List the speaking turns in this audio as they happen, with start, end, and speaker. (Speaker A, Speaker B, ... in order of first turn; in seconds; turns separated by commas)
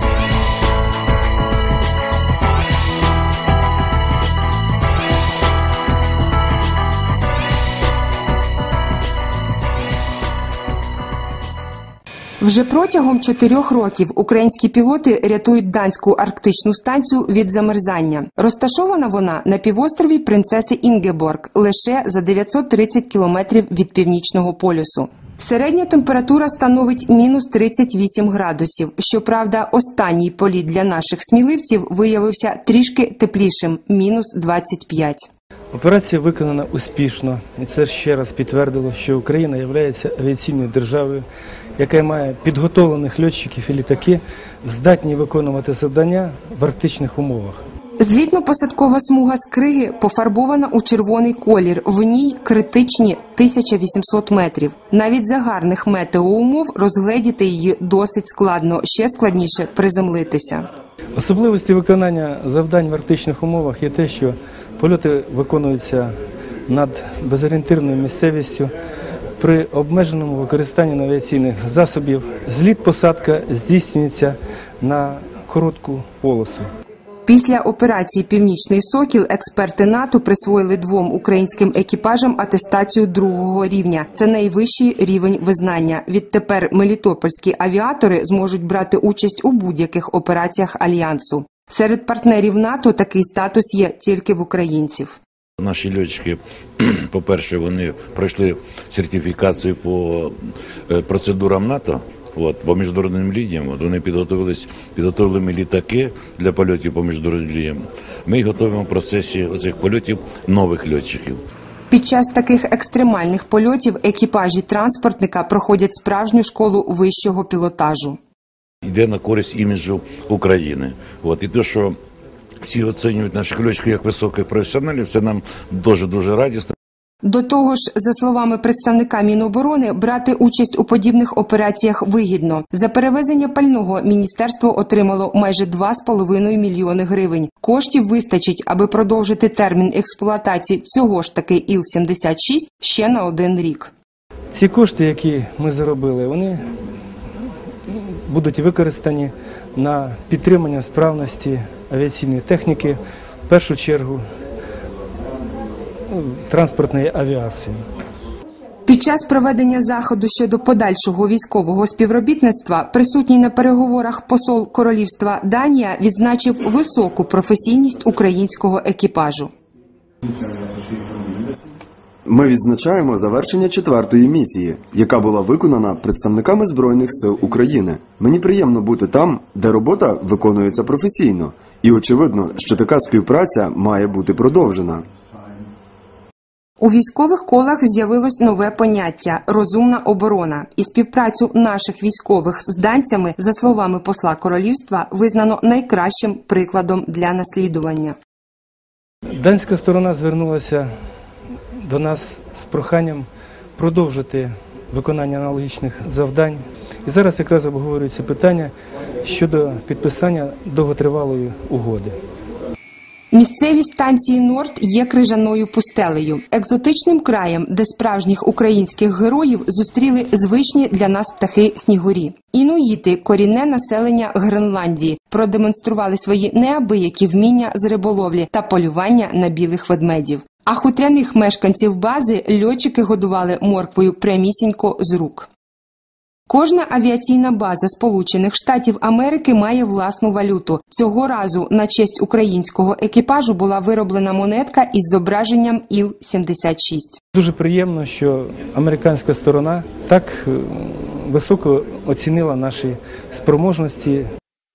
Speaker A: 12.4-35.3, Speaker B: 35.7-41.2, Speaker B: 41.8-47.6, Speaker A: 48.0-60.7, Speaker B: 61.1-66.1, Speaker B: 66.7-68.7, Speaker B: 69.4-76.7, Speaker A: 77.2-95.2, Speaker C: 95.6-100.3, Speaker C: 100.9-111.4, Speaker A: 111.9-118.2, Speaker C: 118.8-122.0, Speaker C: 122.6-126.7, Speaker A: 127.2-143.9, Speaker B: 144.5-146.6, Speaker B: 147.9-154.2, Speaker B: 156.1-157.8, Speaker A: 158.8-169.5, Speaker D: 172.2-185.1, Speaker A: 186.8-198.2, Speaker B: 199.4-200.9, Speaker B: 201.8-208.7, Speaker B: 209.2-212.2, Speaker A: 213.3-235.5, Speaker A: 236.5-247.2, Speaker B: 247.3-254.2